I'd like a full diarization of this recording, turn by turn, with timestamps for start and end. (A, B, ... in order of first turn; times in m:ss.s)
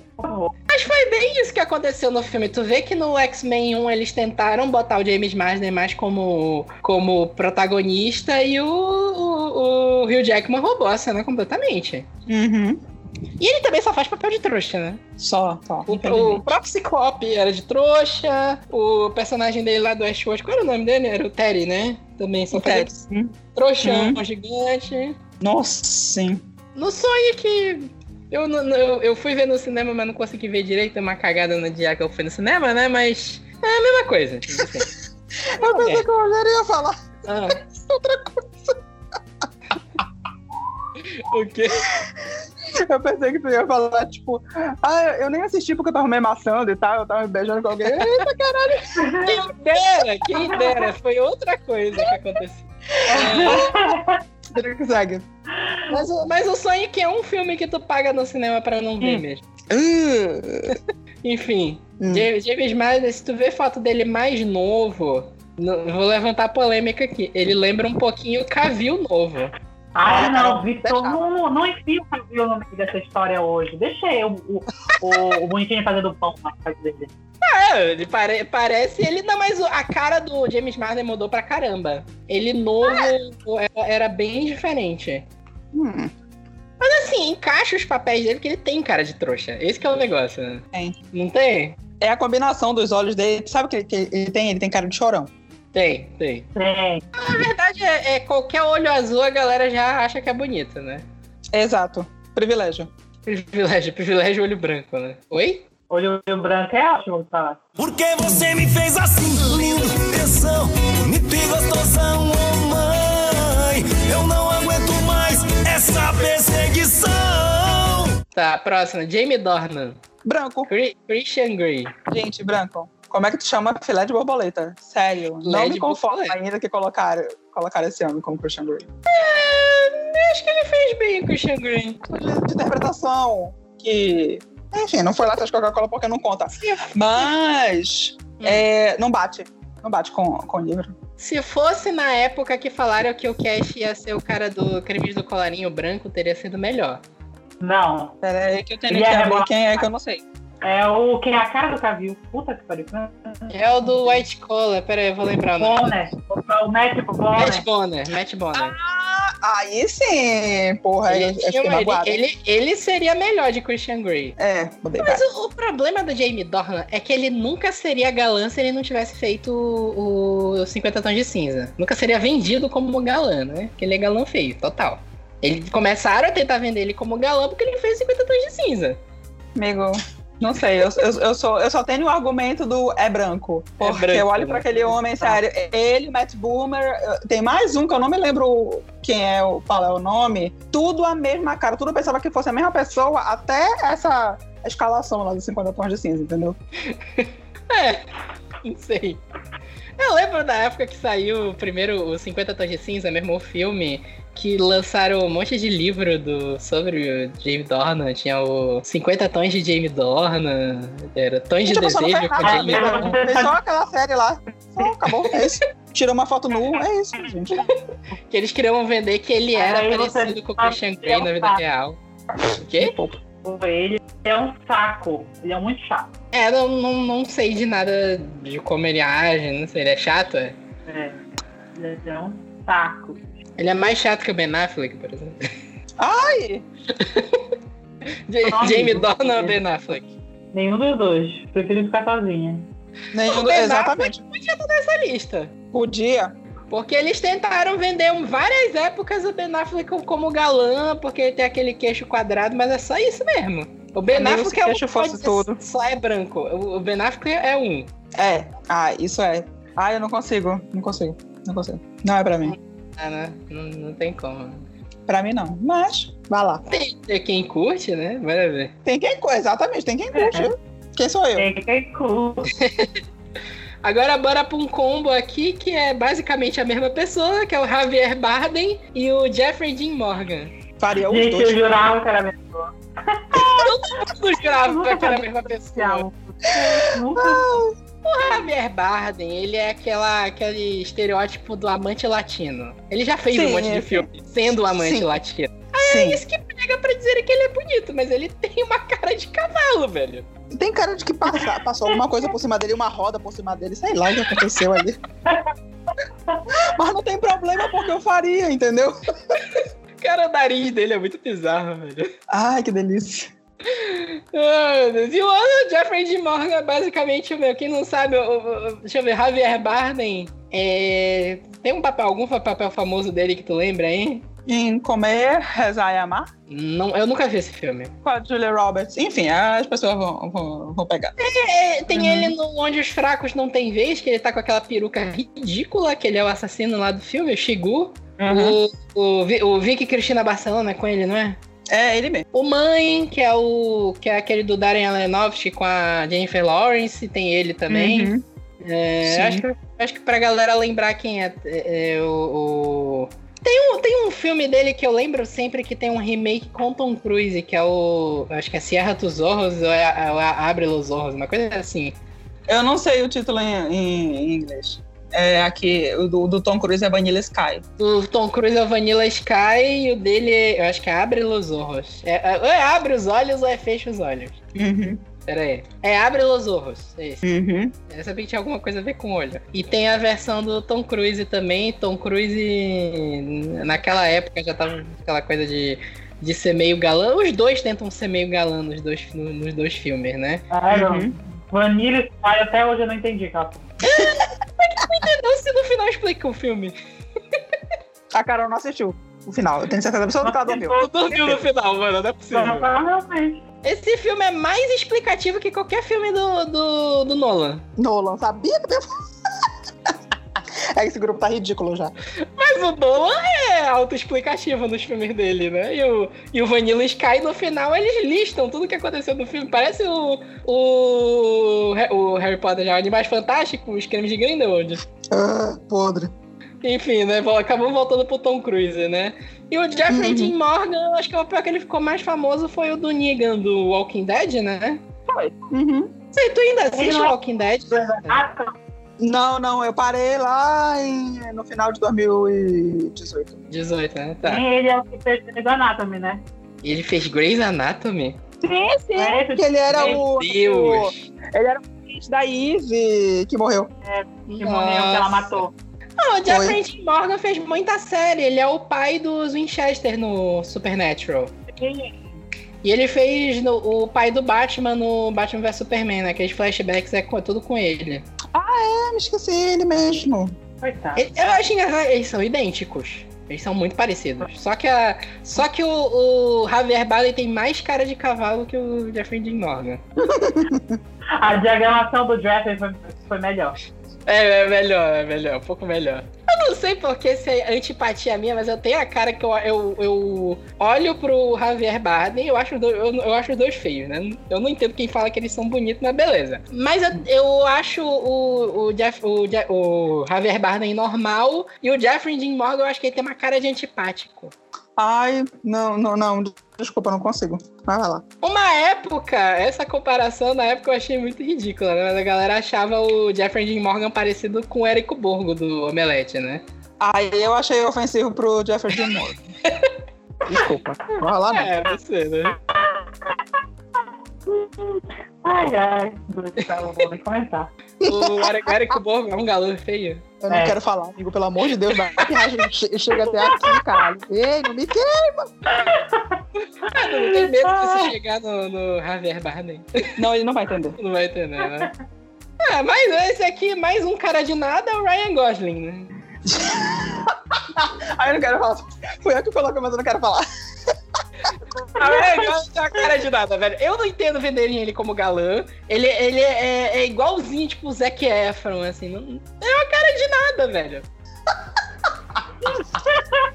0:00.2-0:00.5 A
0:00.7-0:12.0 B
0:12.3-0:12.8 C
0:13.4-0:15.0 B
0:15.2-0:16.5 C
0:15.9-0:23.0 B
0:22.5-0:24.2 C
0:23.5-0:25.2 B
0:25.4-0:26.4 C
0:26.7-0:34.9 B
0:35.4-0:38.8 C
0:35.6-0:36.0 B
0:37.2-0:37.6 B
0:41.0-0:41.9 B
0:42.8-0:49.1 C
0:47.8-0:48.3 B
0:48.9-0:49.4 A
0:49.2-0:53.7 B
0:50.3-0:50.7 A
0:53.1-0:53.9 C
0:53.1-0:54.2 A
0:54.5-0:55.2 C
0:55.9-0:56.2 C
0:55.9-0:59.4 B
0:59.0-1:00.8 C
1:01.2-1:09.5 B
1:02.0-1:02.3 C
1:09.9-1:17.1 A
1:10.1-1:11.2 C
1:17.4-1:25.2 B
1:25.7-1:26.1 C
1:26.8-1:31.8 B
1:32.0-1:35.3 C
1:35.7-1:36.5 B
1:36.5-1:37.0 A
1:37.1-1:41.0 B
1:41.5-1:42.9 C
1:43.2-1:45.6 B
1:45.9-1:47.6 A
1:47.8-1:58.2 D
1:58.3-2:00.0 B
2:00.2-2:00.7 C
2:00.7-2:01.9 B
2:02.1-2:08.9 C
2:05.4-2:06.4 B
2:09.1-2:12.0 B
2:12.1-2:20.9 C
2:16.6-2:16.9 B
2:18.4-2:18.6 B
2:21.2-2:27.0 B
2:27.6-2:28.2 A
2:28.2-2:30.2 C
2:28.9-2:29.8 A
2:30.6-2:34.2 A
2:33.5-2:35.9 B
2:35.6-2:37.6 A
2:37.4-2:38.7 B
2:38.5-2:42.2 C
2:41.1-2:44.3 B
2:44.4-2:45.2 C
2:45.0-2:59.0 B
2:59.6-3:16.6 C
3:03.8-3:05.4 B
3:16.9-3:18.0 B
3:18.6-3:19.2 B
3:20.0-3:33.2 B
3:31.7-3:37.6 C
3:32.4-3:33.6 A
3:38.3-3:42.0 B
3:39.5-3:41.6 A
3:42.5-3:43.0 B
3:42.8-3:43.2 C
3:43.4-3:46.1 A
3:46.3-3:50.6 B
3:50.8-3:51.2 A
3:51.7-3:53.2 A
3:53.6-3:55.5 B
3:56.0-3:56.6 C
3:56.9-3:57.5 B
3:58.3-4:00.1 B
3:58.5-3:59.6 A
4:00.5-4:02.7 A
4:03.1-4:04.2 C
4:03.2-4:05.5 B
4:05.7-4:06.3 C
4:06.7-4:17.9 B
4:14.1-4:15.6 C
4:18.2-4:22.6 C
4:22.5-4:24.6 B
4:25.1-4:26.6 C
4:26.6-4:28.7 B
4:28.8-4:31.5 C
4:30.1-4:30.5 A
4:31.4-4:32.5 A
4:32.6-4:33.0 B
4:33.8-4:40.5 B
4:40.8-4:41.6 C
4:41.0-4:47.5 A
4:43.3-4:46.0 B
4:46.5-4:47.7 C
4:48.0-5:00.3 B
4:53.3-4:54.1 C
4:54.6-4:55.1 C
4:55.8-4:56.2 C
5:00.5-5:05.0 C
5:05.2-5:05.5 A
5:06.5-5:09.4 C
5:09.5-5:12.1 B
5:12.3-5:13.3 C
5:13.6-5:24.2 B
5:24.5-5:26.3 C
5:26.5-5:27.9 B
5:28.0-5:31.1 C
5:31.2-5:41.4 B
5:31.9-5:32.3 C
5:38.2-5:38.6 C
5:41.7-5:42.2 C
5:42.3-6:02.0 B
5:47.7-5:48.2 C
5:49.0-5:49.4 C
6:02.5-6:07.6 C
6:07.8-6:14.4 B
6:14.5-6:15.0 C
6:15.2-6:17.2 B
6:17.2-6:17.7 C
6:17.9-6:30.4 B
6:30.5-6:33.7 A
6:30.7-6:31.1 C
6:33.9-6:36.8 B
6:38.1-6:41.4 C
6:40.2-6:40.9 A
6:40.7-6:42.7 B
6:42.3-6:43.4 A
6:43.6-6:47.6 B
6:47.8-6:49.0 C
6:49.9-6:51.9 C
6:52.2-7:04.8 B
7:05.1-7:06.1 C
7:06.6-7:14.8 B
7:09.9-7:10.3 C
7:15.4-7:15.9 C
7:16.1-7:18.2 B
7:16.7-7:17.1 A
7:17.7-7:18.5 A
7:19.0-7:23.4 C
7:23.5-7:24.4 B
7:24.2-7:26.2 A
7:26.6-7:28.2 B
7:28.4-7:33.7 C
7:28.9-7:30.0 A
7:29.7-7:31.1 B
7:33.8-7:35.5 A
7:34.3-7:35.3 B
7:36.0-7:41.3 B
7:36.3-7:36.6 C
7:41.5-7:42.2 A
7:42.6-7:48.0 B
7:48.3-7:50.4 C
7:50.6-7:51.0 A
7:51.0-7:59.8 B
8:00.0-8:00.8 C
8:01.2-8:03.6 A
8:04.1-8:24.3 B
8:24.8-8:28.0 C
8:28.2-8:36.4 B
8:36.8-8:39.2 C
8:39.4-8:39.7 B
8:40.2-8:41.6 C
8:41.3-8:42.4 B
8:42.5-8:43.2 A
8:44.3-8:47.5 A
8:47.8-8:48.8 C
8:47.8-8:50.1 B
8:50.2-8:55.3 C
8:50.3-8:50.6 A
8:53.0-8:53.6 A
8:55.5-8:57.9 A
8:56.6-8:59.9 B
9:00.0-9:00.8 C
9:00.8-9:01.7 B
9:02.4-9:05.9 B
9:06.2-9:10.2 C
9:11.7-9:20.8 B
9:11.8-9:12.3 A
9:22.7-9:23.1 A